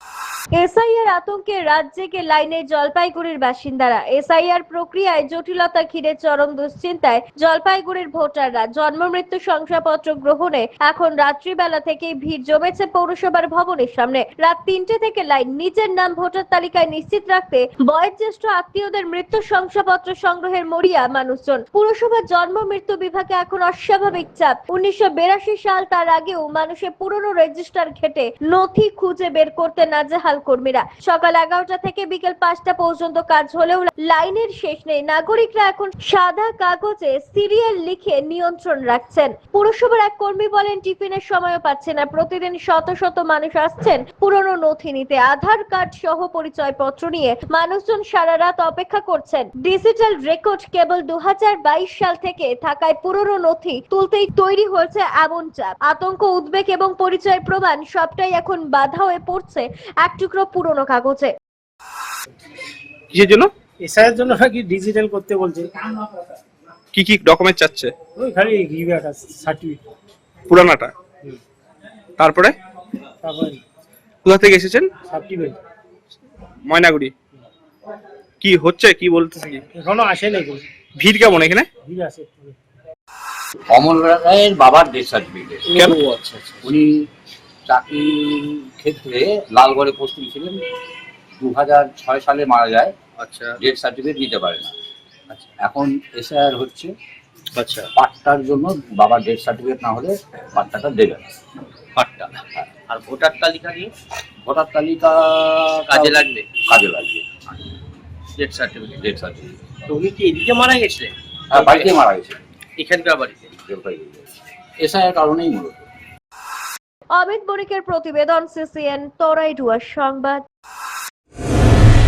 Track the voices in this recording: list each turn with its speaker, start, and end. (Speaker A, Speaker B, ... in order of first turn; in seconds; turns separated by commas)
Speaker A: 0.6-61.3, Speaker B: 63.1-63.5, Speaker C: 63.8-65.7, Speaker B: 66.9-67.9, Speaker C: 68.2-69.8, Speaker B: 70.5-70.9, Speaker B: 72.2-72.5, Speaker C: 73.2-73.6, Speaker B: 74.2-74.9, Speaker C: 75.1-75.6, Speaker B: 76.7-77.1, Speaker B: 78.4-79.6, Speaker C: 79.7-80.6, Speaker B: 80.9-81.7, Speaker C: 81.8-82.6, Speaker D: 83.7-85.7, Speaker E: 85.7-86.7, Speaker B: 85.7-86.0, Speaker D: 86.6-87.0, Speaker D: 87.7-90.6, Speaker D: 91.4-92.9, Speaker E: 93.2-93.6, Speaker D: 93.6-94.7, Speaker D: 95.3-96.9, Speaker E: 97.5-97.9, Speaker D: 97.9-101.3, Speaker E: 102.0-103.9, Speaker D: 104.4-107.6, Speaker E: 105.8-106.5, Speaker E: 108.4-109.0, Speaker D: 108.9-109.5, Speaker E: 109.9-111.9, Speaker D: 111.5-112.4, Speaker E: 112.8-113.5, Speaker D: 113.5-115.8, Speaker A: 117.2-120.4